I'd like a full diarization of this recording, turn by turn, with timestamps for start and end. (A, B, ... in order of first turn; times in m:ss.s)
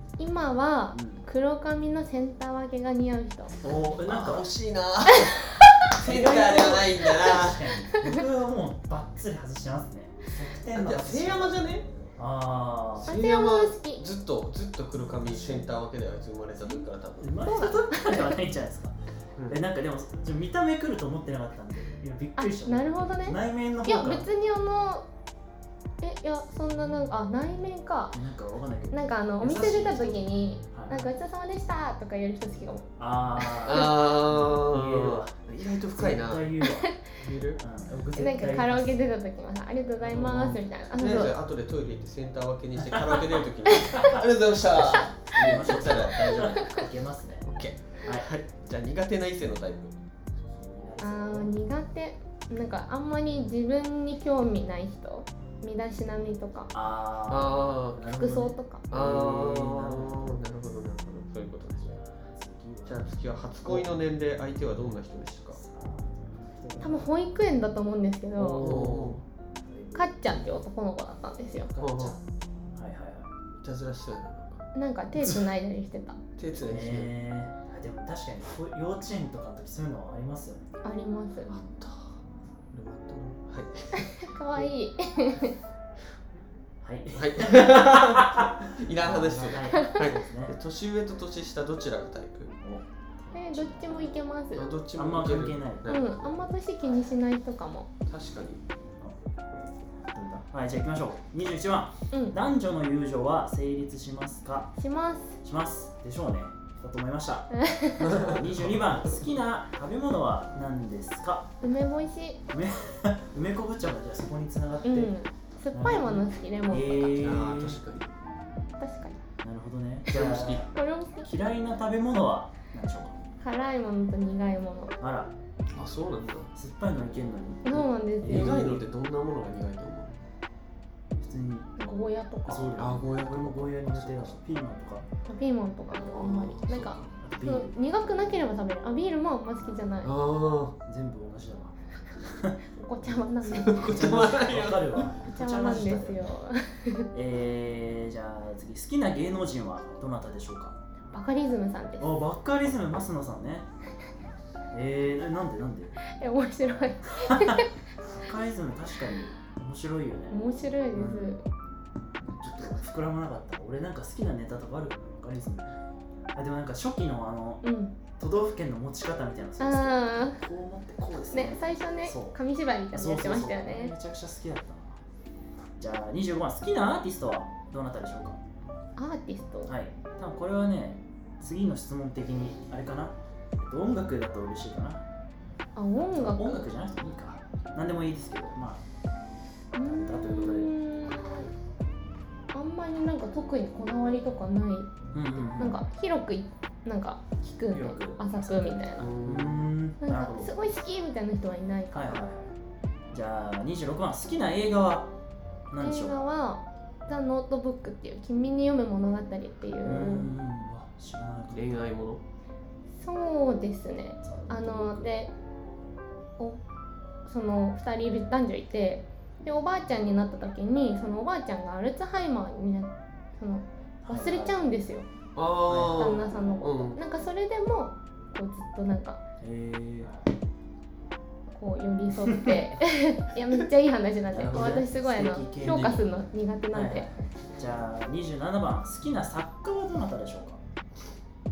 0:00.2-0:03.6 A
0:00.9-0:01.2 B
0:03.6-0:04.5 B
0:04.0-0:07.8 C
0:05.1-0:07.3 A
0:06.0-0:11.6 B
0:07.9-0:08.2 A
0:10.7-0:11.9 C
0:12.2-0:13.1 B
0:13.0-0:17.5 C
0:13.1-0:14.0 A
0:15.3-0:15.7 B
0:16.6-0:19.0 B
0:17.4-0:18.3 A
0:19.5-0:24.3 B
0:22.4-0:25.1 A
0:26.0-0:28.2 A
0:28.1-0:31.1 B
0:28.9-0:32.9 A
0:33.0-0:35.3 B
0:33.4-0:33.8 A
0:33.6-0:36.6 C
0:35.9-0:36.9 B
0:36.6-0:37.0 A
0:37.2-0:37.6 C
0:37.6-0:39.0 B
0:38.2-0:41.3 A
0:40.0-0:40.6 B
0:40.9-0:46.8 C
0:43.9-0:44.2 A
0:44.6-0:47.5 B
0:45.5-0:45.8 A
0:47.5-0:50.0 C
0:48.0-0:48.3 B
0:50.5-0:51.5 B
0:51.0-0:56.7 A
0:56.7-1:00.4 B
0:57.3-0:58.0 C
0:58.1-0:58.8 A
0:58.9-1:02.0 C
1:02.0-1:03.1 B
1:02.8-1:05.6 C
1:03.6-1:04.0 B
1:05.5-1:07.1 B
1:06.8-1:08.7 A
1:08.4-1:10.1 B
1:08.6-1:09.2 C
1:10.0-1:11.7 A
1:11.7-1:12.2 B
1:11.8-1:12.2 C
1:12.7-1:13.3 B
1:13.6-1:14.7 C
1:14.8-1:16.2 A
1:16.4-1:17.1 C
1:16.7-1:20.7 B
1:20.8-1:21.6 A
1:21.5-1:22.2 C
1:22.7-1:24.1 C
1:24.0-1:25.6 A
1:26.8-1:30.6 B
1:27.2-1:32.6 C
1:29.7-1:30.0 A
1:32.6-1:34.1 B
1:33.3-1:34.7 A
1:34.6-1:36.4 C
1:35.0-1:36.0 B
1:35.9-1:37.9 A
1:38.1-1:38.6 C
1:40.1-1:44.8 B
1:44.8-1:45.4 A
1:45.4-1:51.5 B
1:47.5-1:48.2 A
1:48.0-1:49.0 C
1:51.6-1:52.4 A
1:52.5-1:55.1 B
1:54.8-1:57.2 A
1:55.7-1:57.8 B
1:57.1-1:58.1 C
1:58.8-1:59.2 A
1:59.4-2:00.7 B
2:00.1-2:00.6 C
2:00.3-2:01.3 A
2:01.2-2:03.2 B
2:03.4-2:05.0 A
2:05.0-2:05.3 B
2:05.7-2:06.5 C
2:06.5-2:08.9 B
2:07.6-2:08.7 A
2:08.2-2:10.2 C
2:11.2-2:11.7 B
2:11.8-2:12.8 A
2:12.5-2:15.1 B
2:12.6-2:14.4 C
2:15.3-2:20.1 A
2:16.0-2:17.2 C
2:17.2-2:17.8 B
2:19.6-2:20.0 B
2:20.0-2:20.8 C
2:20.8-2:26.3 B
2:22.7-2:24.3 A
2:23.5-2:25.2 C
2:25.3-2:27.1 A
2:27.1-2:30.8 B
2:31.1-2:32.2 A
2:32.0-2:33.7 B
2:34.7-2:36.0 B
2:36.0-2:37.7 A
2:37.2-2:41.4 B
2:40.3-2:41.4 A
2:42.2-2:45.7 B
2:46.3-2:47.6 B
2:47.6-2:48.0 A
2:48.2-2:52.4 B
2:49.6-2:50.4 A
2:51.3-2:53.9 A
2:52.9-2:55.0 B
2:55.8-2:58.4 B
2:59.0-2:59.7 A
2:59.7-3:05.0 B
3:05.8-3:06.7 A
3:06.0-3:08.8 B
3:09.8-3:11.5 A
3:09.8-3:10.7 B
3:12.5-3:19.1 A
3:15.1-3:15.8 B
3:17.7-3:20.5 B
3:19.0-3:19.7 C
3:20.0-3:22.3 A
3:21.9-3:22.5 B
3:23.1-3:25.1 B
3:25.7-3:26.3 B
3:25.8-3:30.3 A
3:29.8-3:31.9 B
3:31.5-3:32.2 C
3:33.0-3:35.3 A
3:34.2-3:35.1 B
3:37.3-3:45.1 A
3:44.0-3:44.6 B
3:45.4-3:47.0 C
3:45.7-3:46.2 B
3:45.9-3:49.2 A
3:49.4-3:50.3 B
3:51.5-3:57.1 A
3:52.2-3:52.6 B
3:54.3-3:56.0 B
3:55.6-3:56.0 C
3:56.7-4:00.6 B